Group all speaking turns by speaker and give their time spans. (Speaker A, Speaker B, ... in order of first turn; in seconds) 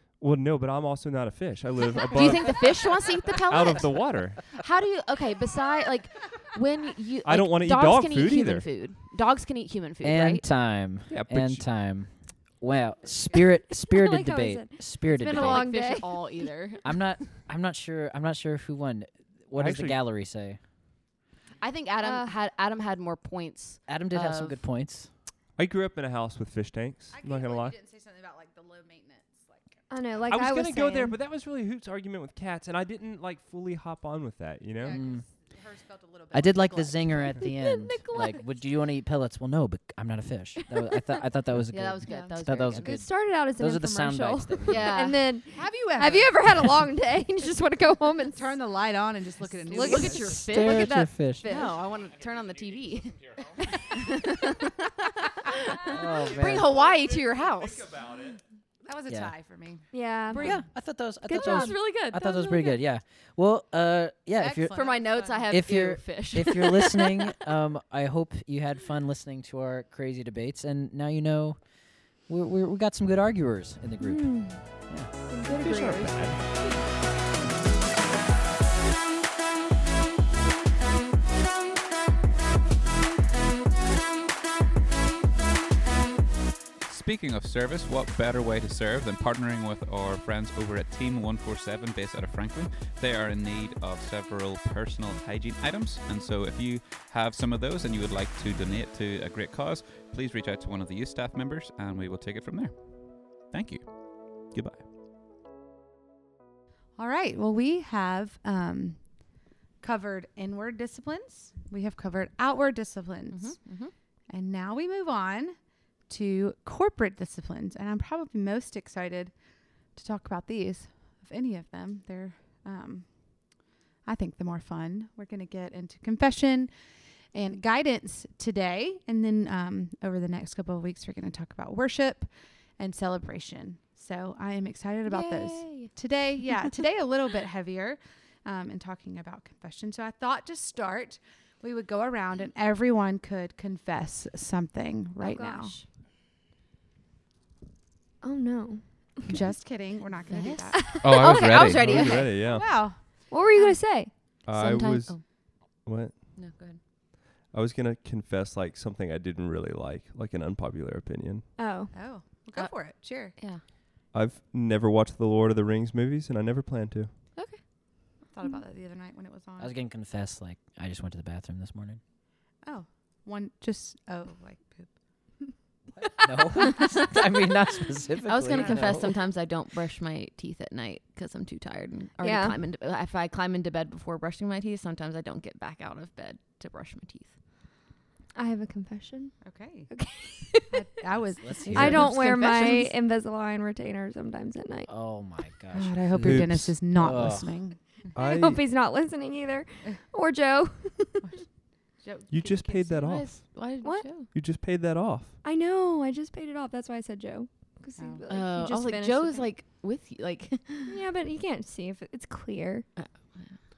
Speaker A: 0.2-4.5, 7.2-8.7, 11.1-11.7, 19.6-20.0, 25.6-27.8, 30.3-35.0, 56.2-58.4, 75.5-76.8, 151.7-152.9, 154.4-156.6, 157.4-161.5, 164.1-167.1, 191.7-192.1, 196.2-196.8, 198.1-198.6, 202.3-203.6, 204.3-205.4
Speaker B: 2.0-10.4, 15.1-16.9, 21.6-24.6, 41.7-43.0, 44.7-45.4, 49.7-53.4, 53.9-58.0, 61.2-62.8, 64.7-67.2, 113.3-113.9, 150.2-152.5, 154.5-155.4, 156.3-156.8, 163.3-163.7, 167.3-167.6, 178.2-187.4, 203.0-204.3, 208.3-211.0, 212.9-213.6
Speaker C: 10.0-15.7, 16.8-20.6, 23.9-25.1, 34.9-35.2, 36.3-45.0, 50.2-51.5, 55.9-56.7, 59.1-59.3, 60.4-64.8, 65.5-75.1, 169.6-172.0, 176.0-179.1, 191.4-192.1, 194.9-197.5
Speaker D: 13.7-16.5, 22.0-22.3, 29.9-31.2, 37.9-38.4, 42.1-48.6, 49.7-51.7, 59.9-60.6, 61.3-61.8, 74.0-76.5, 135.1-135.9, 145.2-145.8, 148.2-149.2, 150.9-151.4, 153.3-154.1, 161.6-161.9, 182.2-182.6, 188.3-190.8, 191.7-194.9, 198.1-201.2, 203.8-204.1, 205.4-209.5, 210.8-212.9
Speaker E: 27.1-29.8, 34.8-37.4, 42.0-42.3, 45.5-46.7, 48.3-50.4, 58.8-60.7, 64.3-65.6, 107.0-119.4, 119.9-126.7, 127.3-145.8, 149.3-151.0, 151.9-153.3, 161.9-163.4, 168.2-169.7, 172.6-174.9, 178.5-179.1, 189.4-189.9, 190.7-192.9, 195.7-198.2, 201.2-203.1, 208.0-208.2
Speaker F: 86.8-104.8, 151.0-151.9